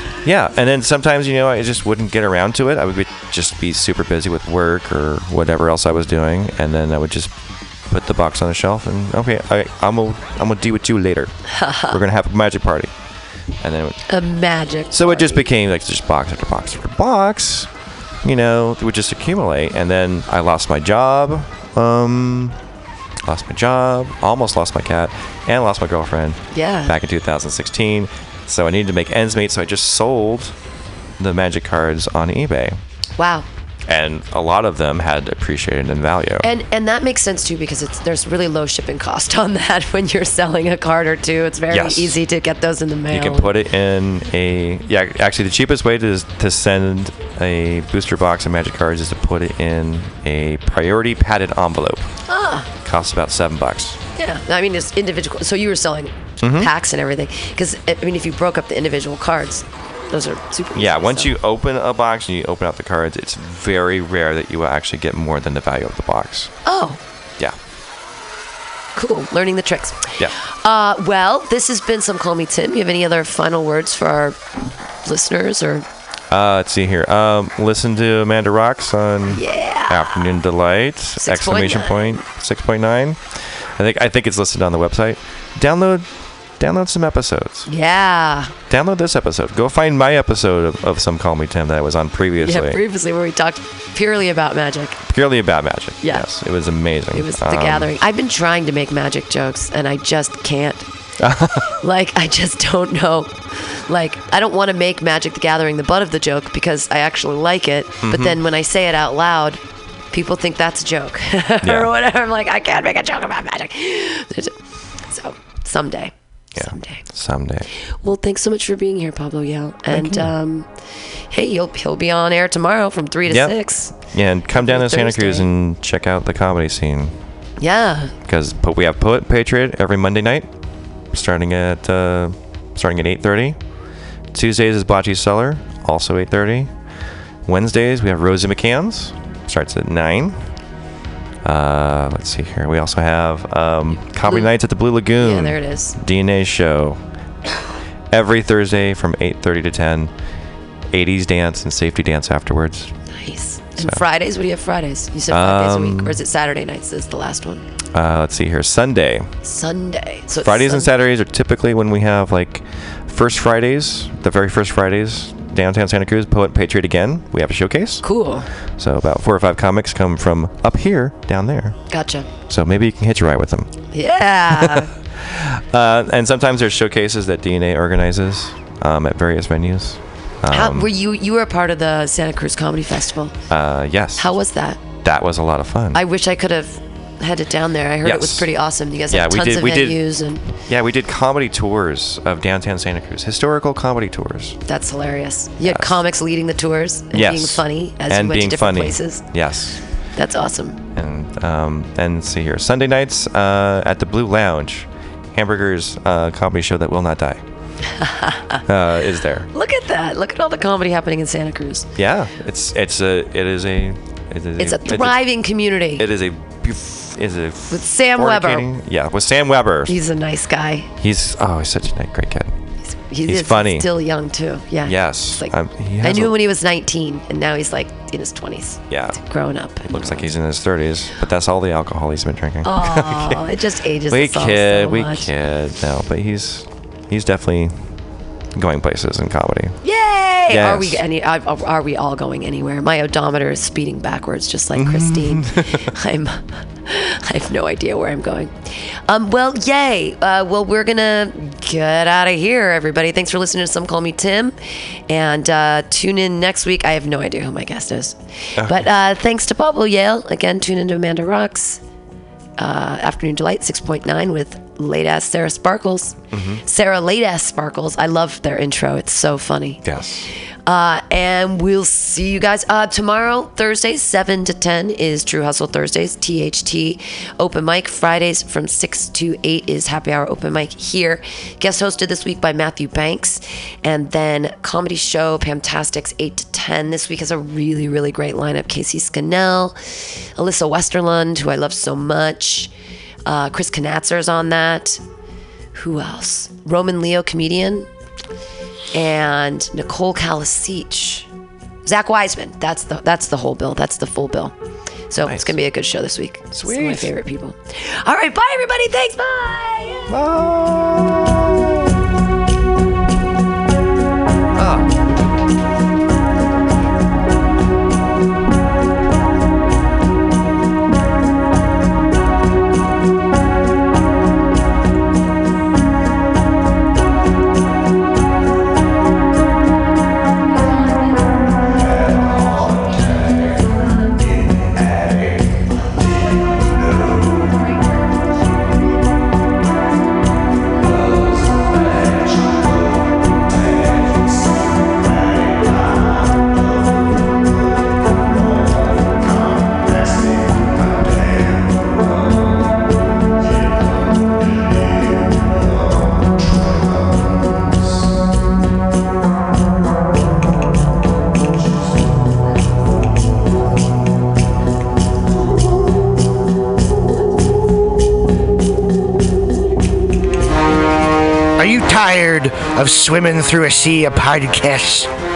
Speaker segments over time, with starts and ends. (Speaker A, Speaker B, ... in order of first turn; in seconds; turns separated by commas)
Speaker A: 0.2-7.3, Speaker A: 7.9-11.3, Speaker B: 11.5-12.0, Speaker A: 11.9-12.9, Speaker A: 13.6-14.0, Speaker B: 14.1-15.5, Speaker A: 14.9-17.7, Speaker A: 18.2-22.6, Speaker A: 23.2-30.6, Speaker B: 26.5-26.9, Speaker A: 31.2-32.8, Speaker B: 33.2-33.5, Speaker A: 33.9-36.5, Speaker B: 36.4-43.6, Speaker A: 41.7-42.2, Speaker A: 43.1-52.1, Speaker B: 52.3-52.7, Speaker A: 52.8-54.0, Speaker B: 54.2-61.3, Speaker A: 56.4-56.7, Speaker A: 60.8-66.5, Speaker B: 66.7-67.0, Speaker B: 69.0-74.4, Speaker B: 75.0-75.8, Speaker A: 76.3-86.1, Speaker B: 79.3-80.3, Speaker B: 81.2-82.2, Speaker A: 86.6-87.7, Speaker B: 87.7-88.5, Speaker A: 88.7-92.8, Speaker B: 92.4-95.0, Speaker A: 95.1-97.9, Speaker B: 96.0-96.3, Speaker B: 97.1-100.9, Speaker A: 101.2-101.7, Speaker B: 101.8-109.6, Speaker A: 108.0-108.4, Speaker B: 110.1-114.5, Speaker A: 111.6-111.9, Speaker B: 115.1-117.0, Speaker A: 116.5-117.7, Speaker B: 118.0-120.7, Speaker A: 119.9-120.3, Speaker B: 121.3-123.9, Speaker A: 123.3-127.2, Speaker B: 124.5-125.5, Speaker B: 127.6-128.1, Speaker A: 128.3-130.5, Speaker A: 131.1-133.6, Speaker A: 134.3-136.7, Speaker A: 137.5-140.4, Speaker A: 141.4-147.0, Speaker B: 144.2-144.5, Speaker B: 145.2-146.0, Speaker A: 148.1-150.1, Speaker A: 150.9-152.9, Speaker B: 153.1-157.7, Speaker A: 155.3-156.2, Speaker A: 157.9-159.3, Speaker B: 159.4-160.9, Speaker A: 160.4-168.0, Speaker B: 168.0-168.5, Speaker A: 168.8-171.8, Speaker B: 171.9-172.3, Speaker A: 172.5-173.7, Speaker B: 173.9-174.9, Speaker A: 174.5-180.9, Speaker B: 180.5-183.4, Speaker A: 183.5-184.4, Speaker B: 184.2-184.8, Speaker A: 185.0-186.0, Speaker B: 185.9-190.4, Speaker A: 188.0-188.5, Speaker A: 189.1-190.0, Speaker A: 190.7-194.6, Speaker B: 194.7-199.2, Speaker A: 195.6-196.0, Speaker A: 197.1-199.8, Speaker B: 200.2-200.8, Speaker A: 200.9-207.4, Speaker B: 208.0-208.6, Speaker A: 208.7-209.5, Speaker B: 209.5-211.9, Speaker A: 212.0-215.2, Speaker B: 214.6-216.1, Speaker A: 216.0-220.0, Speaker B: 217.7-218.7, Speaker B: 219.9-220.9, Speaker A: 221.0-222.5, Speaker B: 222.9-230.2, Speaker A: 223.2-223.9, Speaker A: 224.8-226.4, Speaker A: 228.9-229.2, Speaker A: 229.9-233.4, Speaker B: 232.6-235.3, Speaker A: 234.1-237.8, Speaker A: 238.6-239.8, Speaker B: 239.8-248.5, Speaker A: 240.5-241.0, Speaker A: 244.8-245.9, Speaker B: 249.1-254.6, Speaker B: 255.1-261.8, Speaker A: 258.6-258.9, Speaker B: 262.6-269.8, Speaker A: 266.3-266.6, Speaker A: 269.8-270.3, Speaker B: 270.7-289.8, Speaker B: 290.4-292.7, Speaker B: 293.3-295.0, Speaker B: 295.8-297.9, Speaker B: 298.9-301.3, Speaker B: 301.9-304.5, Speaker B: 305.1-310.1, Speaker A: 305.2-305.6, Speaker A: 306.5-307.1, Speaker A: 310.1-311.9, Speaker A: 314.6-314.9, Speaker C: 371.6-375.1